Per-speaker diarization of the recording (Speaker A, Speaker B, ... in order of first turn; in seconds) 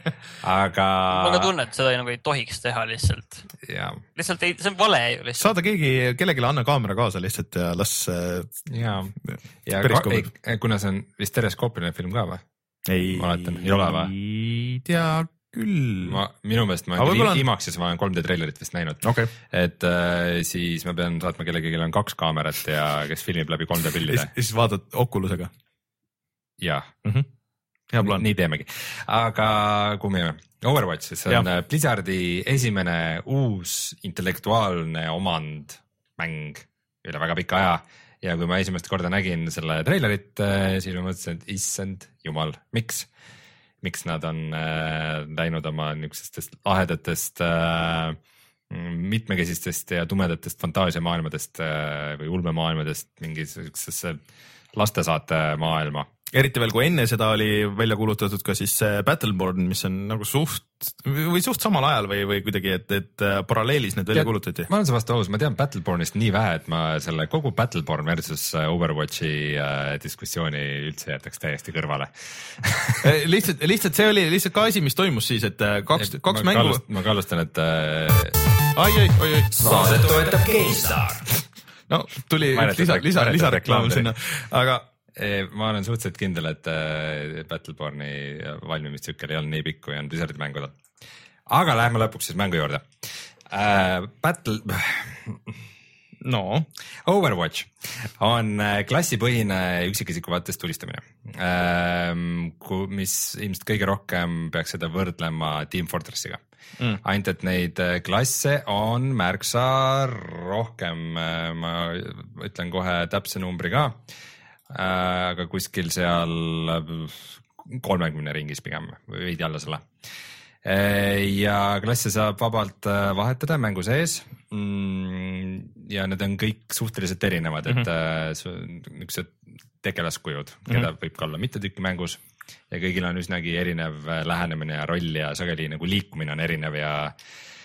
Speaker A: 0.4-1.5, 3.6-4.0, 8.7-12.4, 13.1-14.1, 16.0-24.3, 26.6-26.9, 28.0-43.1, 43.8-48.2, 48.7-54.2, 54.7-56.1, 64.1-73.0, 76.0-78.4, 79.6-81.4, 82.5-84.1, 85.2-90.8, 91.5-95.6, 97.0-106.4, 107.0-114.0, 114.7-119.9, 120.6-137.2
Speaker B: 1.1-3.5, 4.1-5.5
Speaker C: 5.4-8.5, 9.8-10.3, 12.9-16.2, 17.0-17.4, 19.0-19.3, 24.1-25.5, 27.9-28.2, 56.3-64.7, 73.0-76.8, 78.8-80.0, 81.9-84.9, 96.2-96.7